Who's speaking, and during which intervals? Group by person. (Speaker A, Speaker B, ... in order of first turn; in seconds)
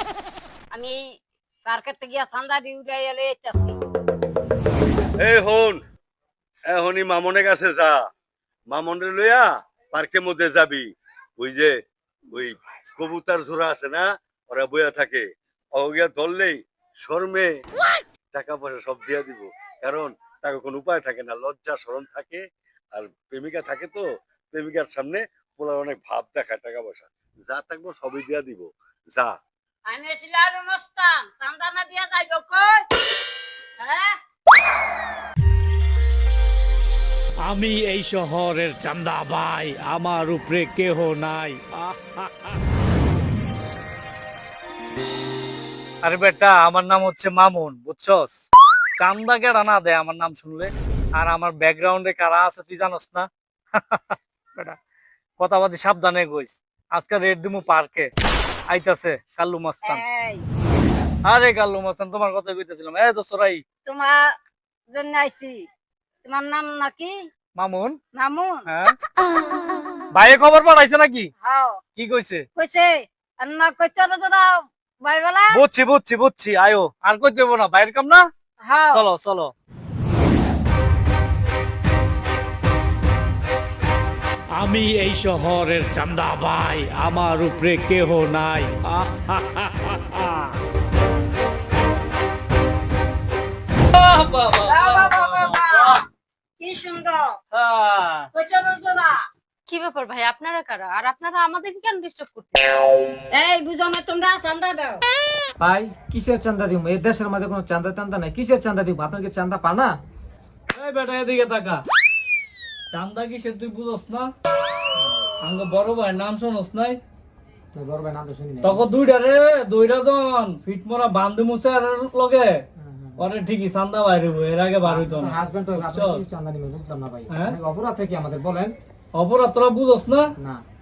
Speaker A: 0.7-1.0, 1.6-3.8, 29.9-32.9, 33.8-34.2, 59.8-60.5, 63.8-64.3, 64.9-65.7, 66.2-67.3, 68.1-68.7, 71.4-71.8, 72.5-75.6, 78.6-79.1, 94.6-96.0, 96.6-97.4, 98.3-99.3, 103.3-105.0
Speaker B: 5.2-5.8, 6.7-8.0, 8.7-10.9, 11.4-11.7, 12.3-15.2, 15.8-17.5, 18.3-22.4, 22.9-29.3
Speaker C: 37.4-42.6, 46.0-48.3, 49.0-54.8, 55.4-58.1, 58.7-60.0, 61.2-63.6, 67.6-68.0, 70.1-71.3, 72.0-72.5, 75.5-78.3, 78.9-79.5, 84.5-90.5, 93.9-96.0, 97.5-98.3, 110.7-111.8, 112.9-114.3, 115.4-117.0, 118.6-122.6, 123.2-126.2, 129.2-130.3
Speaker D: 99.7-102.6
Speaker E: 105.6-109.9, 115.0-115.3, 117.7-118.9, 122.8-123.2, 124.8-128.8, 130.4-130.6